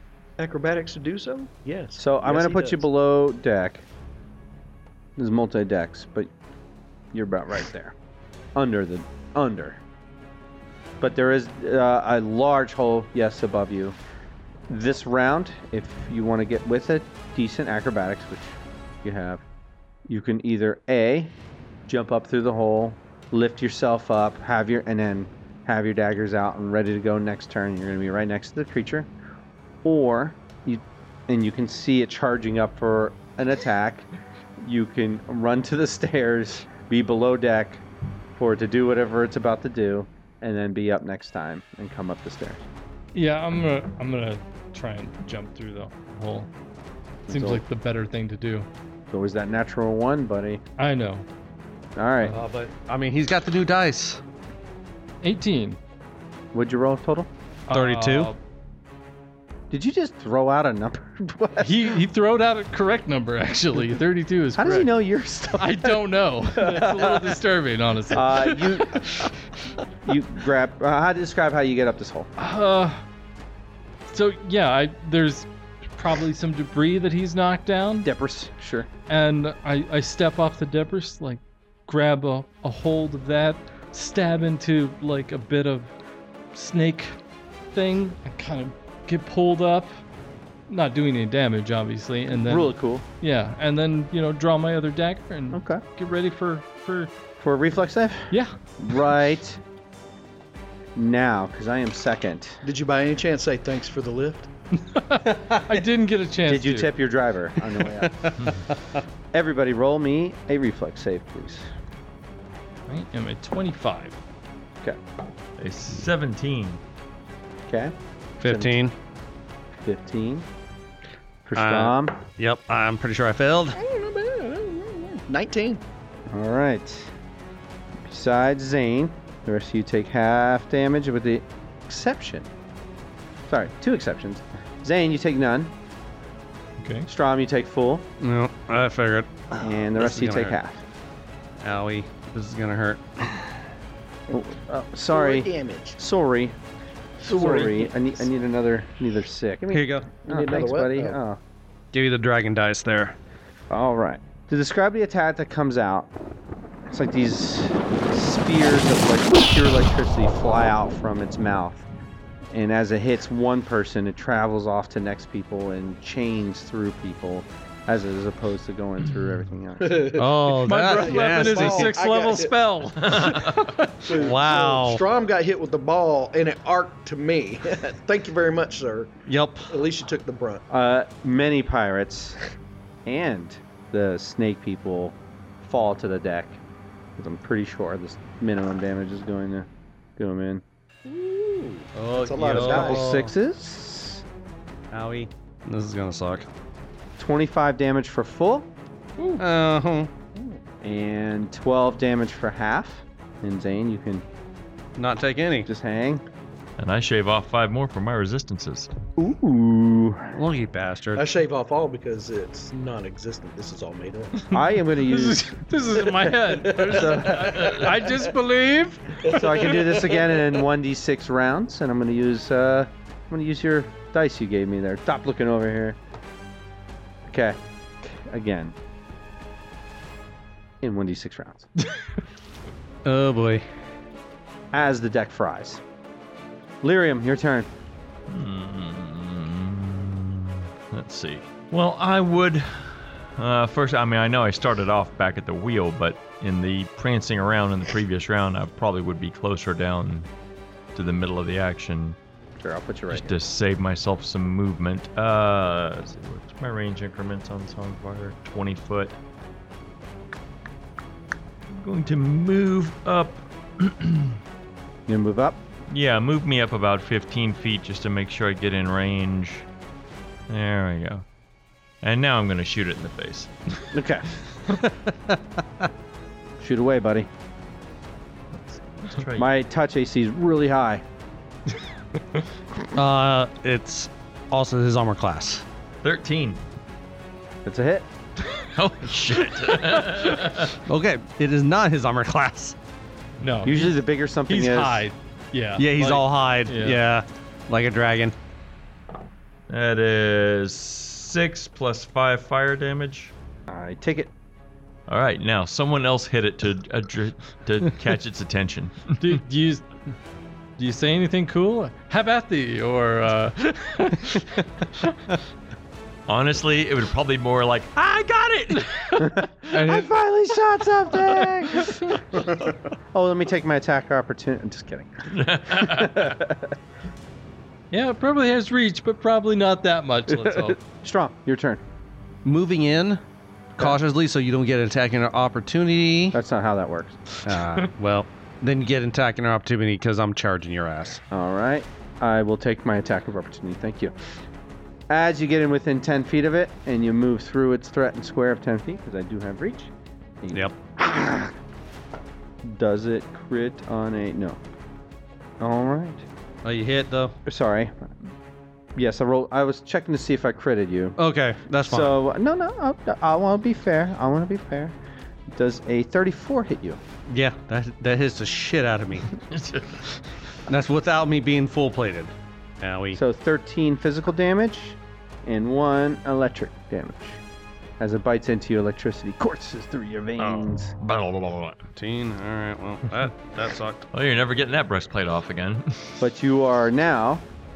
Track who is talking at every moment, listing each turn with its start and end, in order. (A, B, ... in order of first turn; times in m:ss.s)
0:00.4-0:02.8 A
0:02.0-0:03.8 B
0:05.2-0:06.3 B
0:07.1-0:08.0 B
0:08.6-0:09.8 B
0:11.0-0:14.0 B
0:14.7-0:19.4 B
0:20.1-0:21.3 B
0:21.9-0:29.1 B
0:29.8-0:34.1 B
0:34.6-0:37.8 B
0:38.4-0:42.6 B
0:43.1-0:46.5 C
0:47.3-0:47.6 B
0:47.3-0:48.7 C
0:49.1-0:50.6 B
0:50.8-0:51.3 C
0:52.0-0:52.4 B
0:52.3-0:54.2 D
0:55.2-0:55.8 C
0:56.5-0:57.3 B
0:57.7-0:58.4 C
0:57.7-0:58.3 D
0:59.7-1:01.8 B
1:01.6-1:04.9 C
1:04.6-1:06.0 B
1:05.5-1:09.4 C
1:06.5-1:07.4 B
1:08.1-1:09.3 B
1:10.0-1:12.3 B
1:12.4-1:13.0 C
1:14.1-1:18.1 C
1:18.0-1:18.9 B
1:19.1-1:25.9 C
1:26.5-1:27.2 C
1:27.7-1:30.0 C
1:30.7-1:37.1 C
1:32.3-1:33.0 B
1:35.5-1:35.8 B
1:37.4-1:39.6 B
1:41.0-1:42.6 B
1:42.6-1:44.5 A
1:44.8-1:46.9 C
1:46.5-1:48.2 B
1:47.8-1:49.0 D
1:49.3-1:51.7 B
1:52.9-1:54.2 C
1:55.6-1:56.8 E
1:57.7-1:57.9 B
1:58.4-1:58.9 D
1:58.4-1:58.8 B
1:59.8-2:00.5 B
2:01.4-2:02.2 B
2:01.6-2:03.8 D
2:03.7-2:05.8 A
2:06.3-2:07.1 B
2:08.1-2:12.5 B
2:13.5-2:15.7 B
2:16.8-2:17.1 C
2:17.1-2:18.1 B
2:18.2-2:20.6 D
2:19.6-2:20.8 B
2:21.6-2:23.4 D
2:24.3-2:26.6 B
2:25.1-2:26.0 A
2:27.2-2:28.1 A
2:27.2-2:31.4 B
2:29.7-2:30.1 D
2:30.3-2:31.2 A
2:31.9-2:33.2 D
2:33.7-2:36.1 B
2:36.9-2:41.8 B
2:42.5-2:50.2 B
2:49.8-2:52.5 A
2:50.2-2:52.0 D
2:50.6-2:54.1 C
2:53.0-2:53.6 E
2:54.0-3:00.6 A
2:54.1-2:55.0 D
2:59.3-2:59.7 D
3:00.7-3:02.4 B
3:03.0-3:06.6 B
3:07.2-3:10.6 B
3:11.0-3:13.1 A
3:11.9-3:13.3 D
3:12.4-3:14.2 B
3:14.9-3:16.5 D
3:17.2-3:18.7 B
3:19.2-3:19.4 C
3:19.4-3:20.1 D
3:20.8-3:24.2 B
3:25.0-3:25.7 D
3:25.7-3:26.2 B
3:26.8-3:28.9 E
3:29.2-3:30.4 B
3:30.3-3:31.2 D
3:31.2-3:34.4 A
3:34.5-3:37.7 B
3:34.9-3:39.3 C
3:36.6-3:38.2 A
3:39.2-3:40.4 A
3:39.3-3:46.0 B
3:47.2-3:48.8 B
3:50.8-3:51.7 B
3:53.0-3:53.6 D
3:54.7-3:55.8 B
3:56.8-3:57.7 B
3:58.3-4:10.3 E
4:11.0-4:12.2 E
4:12.6-4:13.3 B
4:13.1-4:19.2 E
4:21.7-4:24.4 E
4:25.1-4:25.6 B
4:25.9-4:29.7 E
4:30.5-4:31.2 E
4:32.0-4:33.8 E
4:33.9-4:34.3 B
4:34.7-4:35.9 D
4:36.6-4:37.3 B
4:38.6-4:39.5 E
4:39.4-4:41.0 B
4:42.9-4:45.6 D
4:46.0-4:46.6 E
4:47.6-4:48.1 B
4:48.7-4:50.8 E
4:50.9-4:52.8 D
4:53.4-4:57.0 C
4:53.6-4:55.1 B
4:55.8-4:58.4 D
4:59.7-5:03.3 E
5:03.7-5:04.3 B
5:05.1-5:09.4 E
5:09.2-5:09.8 C
5:10.8-5:15.2 C
5:16.3-5:19.5 E
5:19.2-5:22.2 B
5:23.1-5:26.7 B
5:25.3-5:26.3 E
5:27.9-5:30.8 C
5:30.4-5:31.8 B
5:32.4-5:33.2 D
5:33.8-5:36.4 D
5:36.3-5:37.2 B
5:37.5-5:41.2 D
5:41.3-5:44.1 B
5:45.1-5:49.9 B
5:50.4-5:51.5 B
5:52.6-5:54.6 B
5:55.6-5:56.2 B
5:56.6-5:57.4 D
5:57.5-5:58.1 B
5:59.0-6:01.2 B
6:01.2-6:02.1 D
6:01.9-6:05.0 B
6:05.5-6:07.0 B
6:07.3-6:09.3 D
6:09.5-6:10.2 E
6:10.7-6:13.2 D
6:13.1-6:17.4 B
6:18.0-6:20.9 B
6:20.4-6:21.9 E
6:22.0-6:24.0 D
6:24.1-6:26.2 E
6:26.2-6:27.5 B